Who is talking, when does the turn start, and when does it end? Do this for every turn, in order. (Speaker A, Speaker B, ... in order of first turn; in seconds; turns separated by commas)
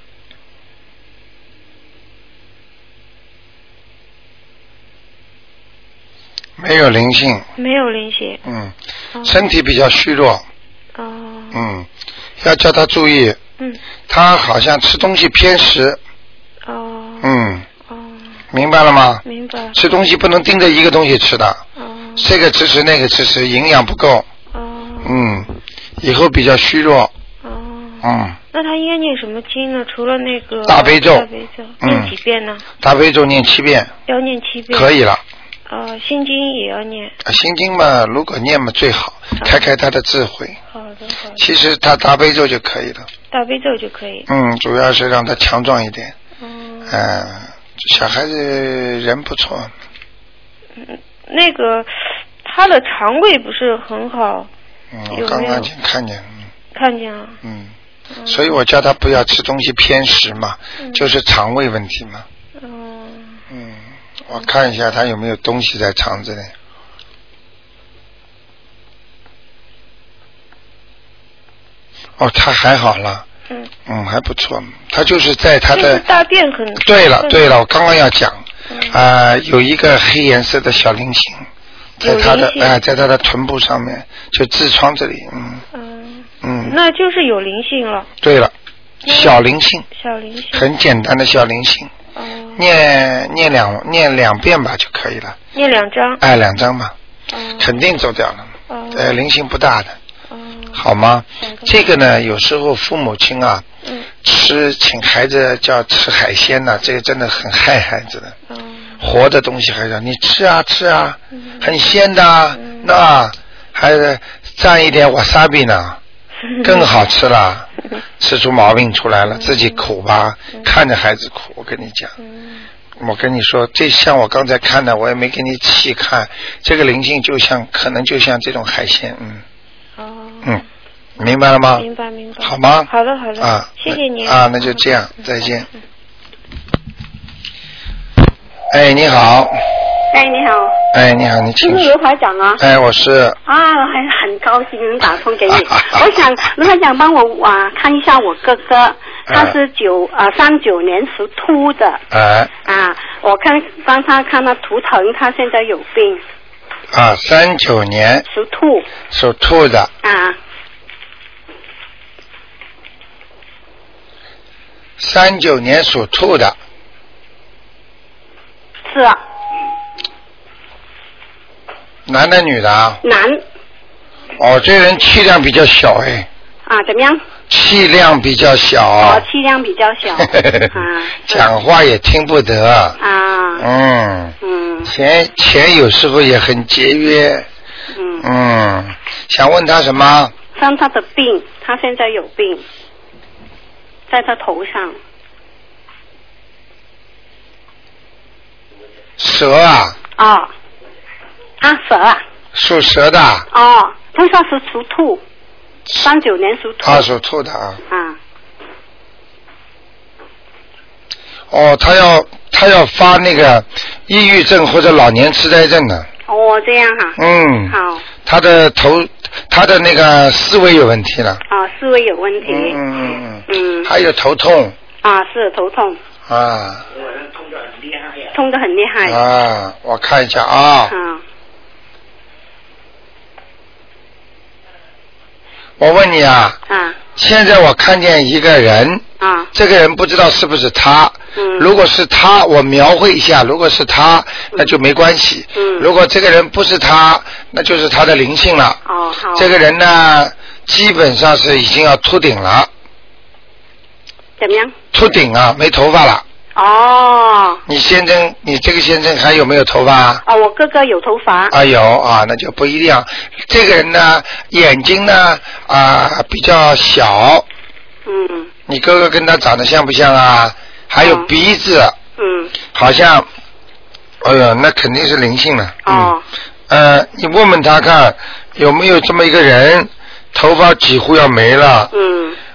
Speaker A: 6.6-7.4, Speaker B: 7.6-8.4, Speaker A: 8.4-8.7, Speaker B: 9.1-9.4, Speaker A: 9.2-10.4, Speaker B: 10.9-11.7, Speaker A: 11.5-11.9, Speaker A: 12.4-13.4, Speaker A: 14.1-16.0, Speaker B: 16.6-18.4, Speaker A: 17.2-17.6, Speaker A: 18.5-19.2, Speaker B: 19.2-19.8, Speaker A: 19.7-21.6, Speaker B: 21.8-22.3, Speaker A: 22.2-24.2, Speaker B: 24.5-25.5, Speaker A: 25.0-25.5, Speaker A: 26.0-27.1, Speaker B: 27.4-32.6, Speaker A: 28.0-28.4, Speaker A: 30.6-31.3, Speaker A: 31.8-32.1, Speaker A: 32.8-33.9, Speaker B: 34.1-34.9, Speaker A: 34.7-35.2, Speaker B: 35.7-37.1, Speaker A: 37.2-40.6, Speaker B: 39.4-39.6, Speaker B: 40.7-41.4, Speaker A: 41.4-43.1, Speaker B: 43.3-44.3, Speaker A: 44.3-46.1, Speaker B: 46.4-47.1, Speaker A: 46.9-49.7, Speaker B: 50.8-54.5, Speaker A: 54.9-56.5, Speaker B: 55.1-55.7, Speaker B: 56.7-57.4, Speaker A: 57.4-57.7, Speaker B: 58.1-58.6, Speaker A: 58.3-62.2, Speaker B: 60.8-61.1, Speaker B: 62.6-63.4, Speaker A: 63.5-66.5, Speaker A: 72.2-73.2, Speaker A: 73.8-76.0, Speaker B: 75.7-77.5, Speaker A: 76.8-81.5, Speaker B: 78.7-79.0, Speaker A: 82.0-85.6, Speaker B: 82.0-82.8, Speaker B: 85.7-88.1, Speaker A: 86.4-86.8, Speaker A: 88.2-88.5, Speaker A: 89.0-89.8, Speaker B: 89.0-89.4, Speaker B: 89.9-90.7, Speaker A: 90.5-91.9, Speaker B: 92.1-92.6, Speaker A: 92.5-95.4, Speaker B: 95.5-96.2, Speaker A: 96.2-96.9, Speaker B: 97.3-97.8, Speaker A: 97.6-100.0, Speaker B: 98.7-99.2, Speaker B: 100.3-100.8, Speaker A: 100.7-103.6, Speaker B: 101.4-101.9, Speaker B: 103.8-104.1, Speaker A: 104.2-108.3, Speaker B: 108.5-109.0, Speaker A: 109.0-116.0, Speaker B: 111.4-111.7, Speaker B: 112.6-112.9, Speaker B: 116.5-116.9, Speaker A: 116.6-117.7, Speaker A: 118.2-122.1, Speaker B: 119.3-119.8, Speaker B: 122.2-122.7, Speaker A: 123.0-129.4, Speaker B: 130.0-130.6, Speaker A: 131.2-131.8, Speaker B: 131.8-135.4, Speaker A: 132.4-135.7, Speaker A: 138.7-139.6, Speaker C: 140.1-140.8, Speaker A: 140.9-141.9, Speaker C: 141.6-142.6, Speaker A: 142.6-143.4, Speaker C: 143.4-152.0, Speaker A: 145.5-146.0, Speaker A: 149.3-149.5, Speaker A: 152.1-152.5, Speaker C: 152.6-156.2, Speaker A: 156.9-158.2, Speaker C: 158.3-158.9, Speaker A: 159.1-159.9, Speaker C: 160.0-160.4, Speaker A: 165.0-166.6, Speaker C: 168.9-169.2, Speaker A: 172.1-173.0, Speaker C: 173.0-173.4, Speaker A: 174.4-176.3, Speaker C: 176.7-177.2, Speaker A: 177.5-179.2, Speaker C: 179.0-181.5, Speaker A: 180.3-180.7, Speaker A: 181.3-183.0, Speaker C: 183.0-183.7, Speaker A: 183.6-187.5, Speaker C: 184.4-184.9, Speaker C: 187.9-188.3, Speaker A: 188.2-190.3, Speaker C: 190.5-192.6, Speaker C: 194.1-195.0, Speaker A: 199.2-200.0, Speaker C: 200.2-200.5, Speaker C: 201.6-202.2, Speaker A: 202.5-203.5, Speaker C: 203.5-205.2, Speaker C: 206.0-207.1, Speaker A: 206.8-207.8, Speaker C: 207.9-208.2, Speaker A: 211.5-216.1, Speaker C: 216.3-217.2, Speaker A: 217.2-221.4, Speaker C: 217.7-218.0, Speaker C: 221.5-222.8, Speaker A: 222.4-224.8, Speaker C: 223.5-223.9, Speaker C: 225.0-226.0, Speaker A: 226.3-226.9, Speaker C: 228.2-229.2, Speaker A: 229.0-230.9, Speaker C: 230.9-231.2, Speaker A: 235.8-236.6, Speaker C: 236.7-237.0, Speaker A: 237.1-248.8, Speaker C: 239.2-239.5, Speaker C: 241.3-241.7, Speaker C: 245.5-245.9, Speaker C: 248.8-249.5, Speaker A: 249.3-252.7, Speaker C: 254.4-254.7, Speaker A: 254.9-256.2, Speaker C: 256.5-257.6, Speaker A: 257.7-260.2, Speaker C: 260.2-261.5, Speaker A: 261.5-267.4, Speaker C: 268.0-268.5, Speaker A: 268.7-272.0, Speaker C: 271.0-271.3, Speaker C: 272.2-272.5, Speaker A: 272.7-273.3, Speaker A: 274.2-276.1, Speaker C: 275.8-276.2, Speaker A: 276.7-281.9, Speaker C: 281.9-282.4